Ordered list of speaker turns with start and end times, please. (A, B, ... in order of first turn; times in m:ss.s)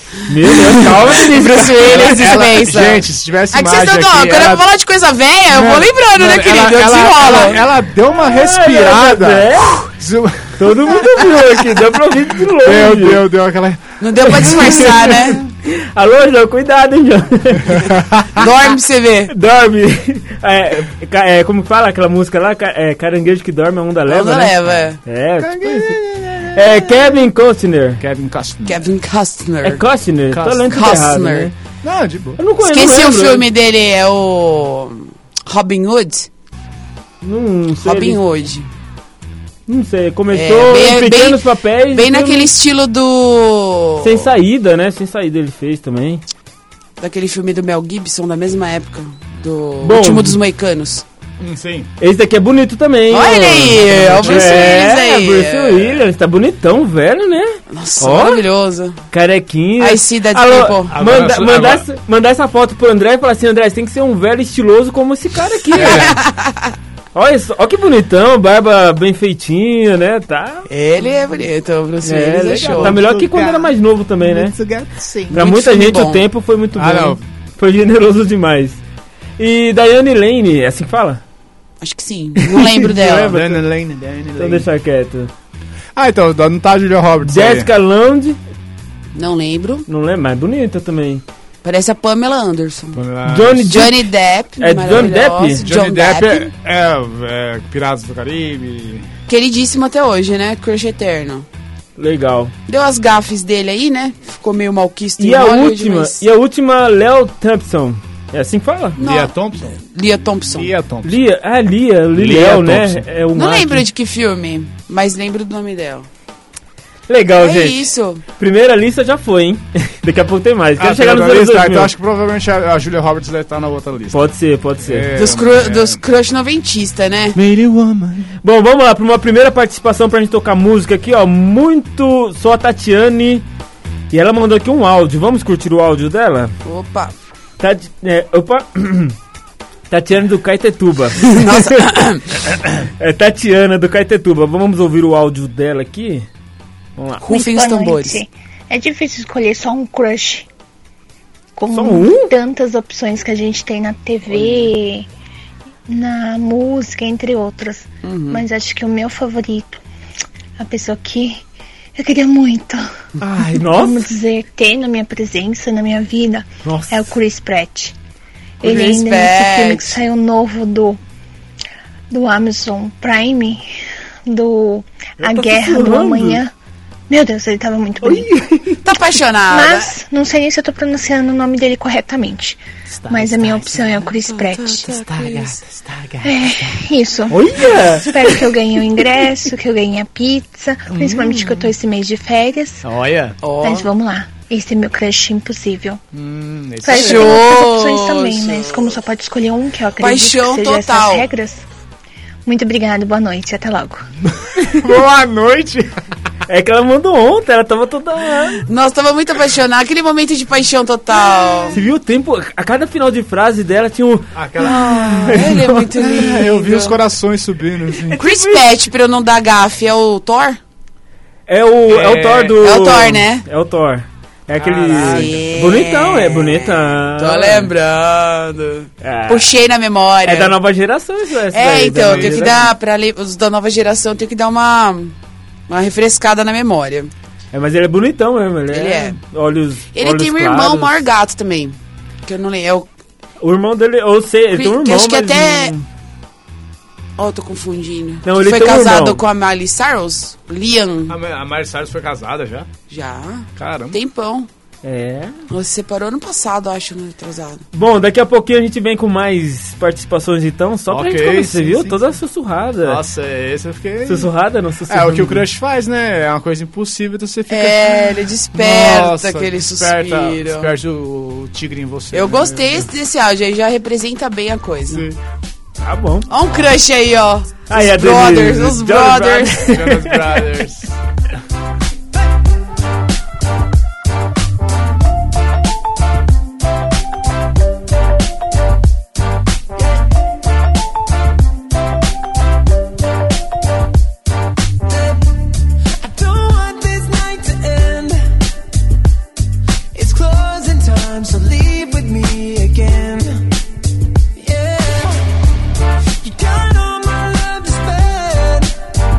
0:00.3-0:02.4 A
0:00.4-0:07.6 B
0:01.8-0:04.7 C
0:05.5-0:11.0 C
0:08.1-0:09.8 A
0:10.6-0:13.2 A
0:12.6-0:15.4 C
0:14.0-0:15.4 B
0:14.3-0:18.0 A
0:17.8-0:18.4 C
0:18.4-0:19.3 B
0:19.3-0:26.0 A
0:24.1-0:25.0 B
0:25.4-0:27.0 C
0:26.5-0:28.0 A
0:28.0-0:28.9 C
0:28.7-0:29.8 B
0:29.6-0:31.5 A
0:30.3-0:30.8 C
0:30.7-0:31.5 B
0:31.8-0:32.4 C
0:32.4-0:33.4 A
0:32.6-0:36.3 B
0:37.2-0:38.2 A
0:37.8-0:38.7 B
0:39.7-0:42.5 A
0:40.3-0:44.3 B
0:44.0-0:46.2 A
0:47.0-0:51.0 B
0:49.8-0:50.4 A
0:51.4-0:51.9 C
0:52.0-0:58.4 A
0:53.1-0:56.0 B
0:53.8-0:54.7 C
0:57.7-0:59.0 B
0:59.1-1:06.2 A
0:59.8-1:01.0 B
1:00.9-1:01.8 C
1:05.7-1:06.2 C
1:05.8-1:06.7 B
1:07.2-1:10.7 A
1:10.7-1:13.0 B
1:12.0-1:14.6 A
1:12.6-1:15.4 C
1:15.3-1:18.8 A
1:15.3-1:16.2 B
1:16.8-1:17.2 C
1:19.4-1:21.2 A
1:21.8-1:23.4 B
1:22.5-1:23.6 A
1:23.2-1:24.7 C
1:24.4-1:25.3 A
1:26.0-1:27.7 C
1:27.2-1:28.4 A
1:29.2-1:29.9 B
1:29.9-1:31.2 A
1:31.6-1:33.0 B
1:32.9-1:33.8 C
1:33.3-1:34.0 A
1:33.7-1:36.5 B
1:34.6-1:35.6 A
1:35.6-1:39.1 C
1:39.3-1:41.5 B
1:42.0-1:42.5 A
1:42.7-1:46.2 B
1:45.2-1:49.0 A
1:49.0-1:49.8 C
1:49.0-1:50.7 B
1:50.5-1:51.2 C
1:51.0-1:53.9 A
1:52.1-1:53.1 C
1:53.4-1:56.1 B
1:57.1-1:57.9 A
1:57.4-1:58.2 B
1:58.4-2:01.9 A
2:00.8-2:04.3 C
2:04.1-2:05.1 A
2:04.8-2:06.0 C
2:05.2-2:07.4 B
2:07.3-2:08.3 C
2:08.4-2:13.4 A
2:14.1-2:16.5 A
2:16.6-2:17.1 B
2:17.6-2:19.2 A
2:19.9-2:21.9 A
2:21.2-2:22.3 B
2:23.0-2:26.3 A
2:27.0-2:27.2 A
2:27.2-2:28.2 B
2:27.3-2:30.5 D
2:31.6-2:35.1 D
2:31.7-2:32.3 A
2:35.9-2:39.8 D
2:38.0-2:38.4 B
2:40.6-2:41.4 D
2:42.0-2:42.9 D
2:43.2-2:44.0 A
2:43.6-2:47.9 D
2:46.6-2:47.1 A
2:48.6-2:50.0 B
2:48.6-2:51.0 D
2:52.1-2:53.7 D
2:54.3-2:56.5 D
2:55.2-2:56.4 A
2:57.1-2:58.3 D
2:58.0-2:58.8 A
2:58.8-3:00.0 B
2:59.5-3:05.0 D
3:02.9-3:04.1 C
3:04.1-3:05.6 B
3:04.9-3:06.8 C
3:06.2-3:12.9 D
3:07.3-3:08.4 A
3:10.9-3:11.6 C
3:12.8-3:13.4 C
3:13.4-3:13.9 B
3:13.6-3:16.0 D
3:16.1-3:17.4 C
3:16.8-3:21.6 D
3:16.9-3:19.0 B
3:20.0-3:21.3 B
3:22.5-3:24.1 D
3:24.6-3:25.9 C
3:26.5-3:28.6 A
3:28.7-3:31.8 B
3:31.7-3:35.8 A
3:34.3-3:38.2 C
3:34.6-3:37.0 B
3:38.1-3:38.6 A
3:38.2-3:40.6 B
3:41.5-3:47.7 A
3:41.9-3:42.6 C
3:42.6-3:43.4 B
3:44.6-3:45.4 C
3:45.0-3:50.6 B
3:49.0-3:49.5 A
3:50.2-3:52.7 A
3:51.5-3:55.2 B
3:52.0-3:52.7 C
3:55.7-3:57.1 B
3:57.5-4:01.0 A
3:58.7-3:59.2 B
3:59.9-4:02.9 B
4:03.4-4:05.8 A
4:04.5-4:05.7 B
4:07.2-4:11.2 B
4:08.2-4:09.2 A
4:11.1-4:12.7 C
4:12.9-4:14.5 B
4:13.6-4:14.0 C
4:14.8-4:15.4 A
4:15.5-4:17.6 B
4:17.7-4:23.0 A
4:20.9-4:22.0 C
4:22.8-4:24.3 C
4:24.1-4:25.5 A
4:24.9-4:32.9 C
4:27.5-4:30.7 B
4:32.1-4:35.1 B
4:34.9-4:35.2 C
4:35.8-4:36.3 A
4:36.3-4:39.6 B
4:37.7-4:40.4 A
4:39.6-4:40.9 C
4:54.9-4:55.2 E
4:56.0-4:58.2 E
4:59.9-5:03.4 E
5:04.4-5:05.2 E
5:06.2-5:08.7 E